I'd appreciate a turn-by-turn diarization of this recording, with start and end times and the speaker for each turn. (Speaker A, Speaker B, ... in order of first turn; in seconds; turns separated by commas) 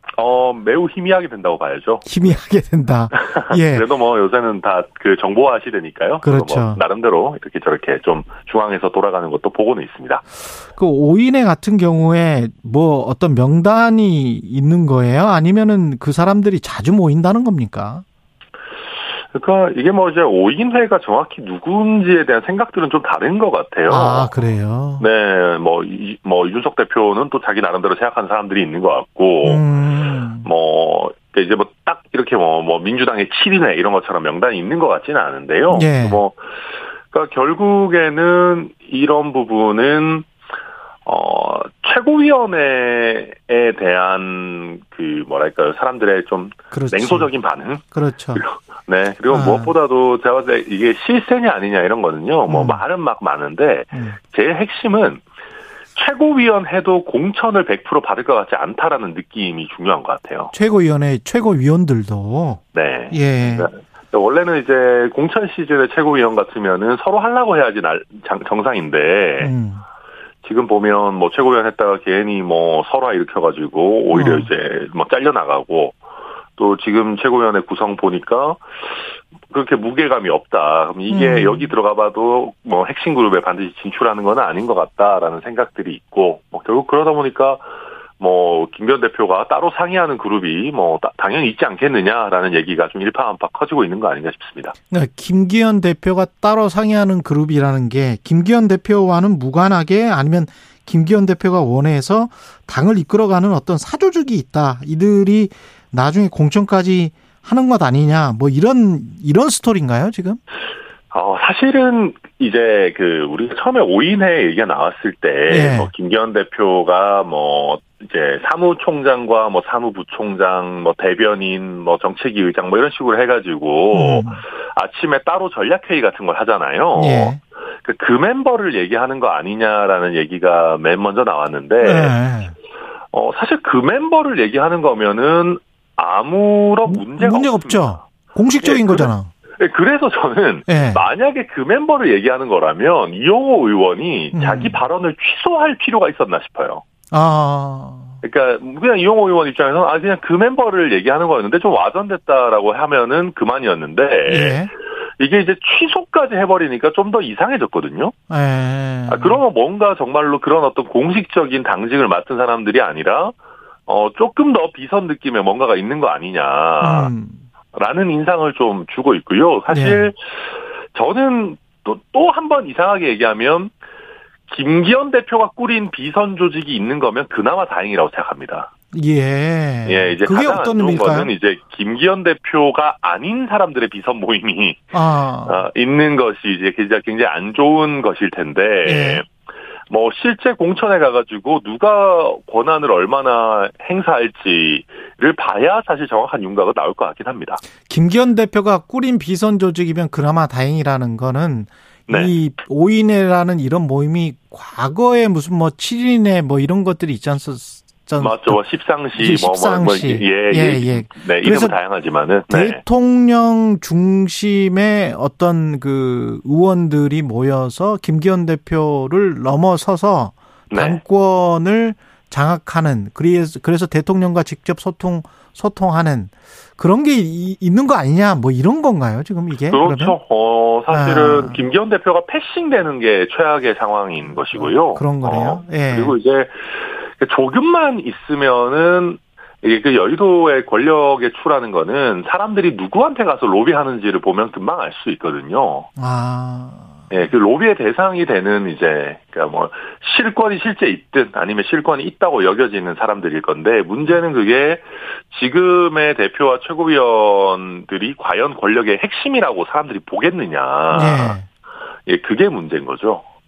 Speaker A: 0.1-2.3, Speaker B: 2.0-3.9, Speaker A: 3.1-10.2, Speaker B: 6.2-6.8, Speaker B: 10.7-18.0, Speaker A: 19.3-24.4, Speaker B: 23.9-25.1, Speaker A: 25.0-29.6, Speaker B: 29.4-30.5, Speaker A: 30.4-36.4, Speaker B: 35.7-36.2, Speaker A: 37.1-40.3, Speaker A: 41.1-47.8, Speaker B: 46.7-47.3, Speaker B: 47.9-48.4, Speaker A: 48.4-55.2, Speaker B: 49.3-49.7, Speaker B: 52.5-52.8, Speaker B: 53.9-54.2, Speaker A: 56.0-60.5, Speaker B: 60.5-63.7, Speaker A: 62.7-69.5, Speaker B: 69.4-69.8, Speaker A: 70.4-76.0, Speaker B: 74.1-74.5, Speaker A: 76.6-78.6, Speaker A: 79.5-87.7, Speaker B: 81.1-81.7, Speaker A: 88.2-94.7, Speaker B: 94.9-110.4, Speaker A: 111.1-132.2, Speaker B: 115.5-115.9, Speaker B: 123.9-124.4, Speaker B: 126.9-127.4, Speaker B: 131.8-132.5, Speaker A: 133.1-138.0, Speaker B: 136.9-139.3, Speaker A: 138.6-146.8, Speaker B: 140.7-141.0, Speaker B: 144.3-144.8, Speaker B: 147.1-148.1, Speaker A: 148.2-154.6, Speaker B: 154.3-154.7, Speaker A: 155.2-158.1, Speaker B: 158.3-159.4, Speaker A: 159.1-163.3, Speaker A: 163.9-167.1, Speaker B: 166.8-167.4, Speaker A: 167.7-170.2, Speaker B: 169.7-170.1, Speaker A: 170.9-173.7, Speaker A: 174.5-178.7, Speaker B: 178.9-181.3, Speaker A: 179.9-184.9, Speaker B: 184.9-185.6, Speaker A: 185.4-189.3, Speaker B: 188.8-189.2, Speaker A: 189.9-197.6, Speaker B: 197.9-208.6, Speaker A: 202.1-202.3, Speaker A: 208.2-212.8, Speaker B: 209.1-211.8, Speaker B: 212.5-230.2, Speaker A: 220.7-221.0, Speaker A: 229.7-245.9, Speaker B: 230.9-231.6, Speaker B: 234.5-236.2, Speaker B: 246.0-247.0, Speaker A: 247.1-261.4, Speaker B: 260.9-261.5, Speaker A: 262.1-263.2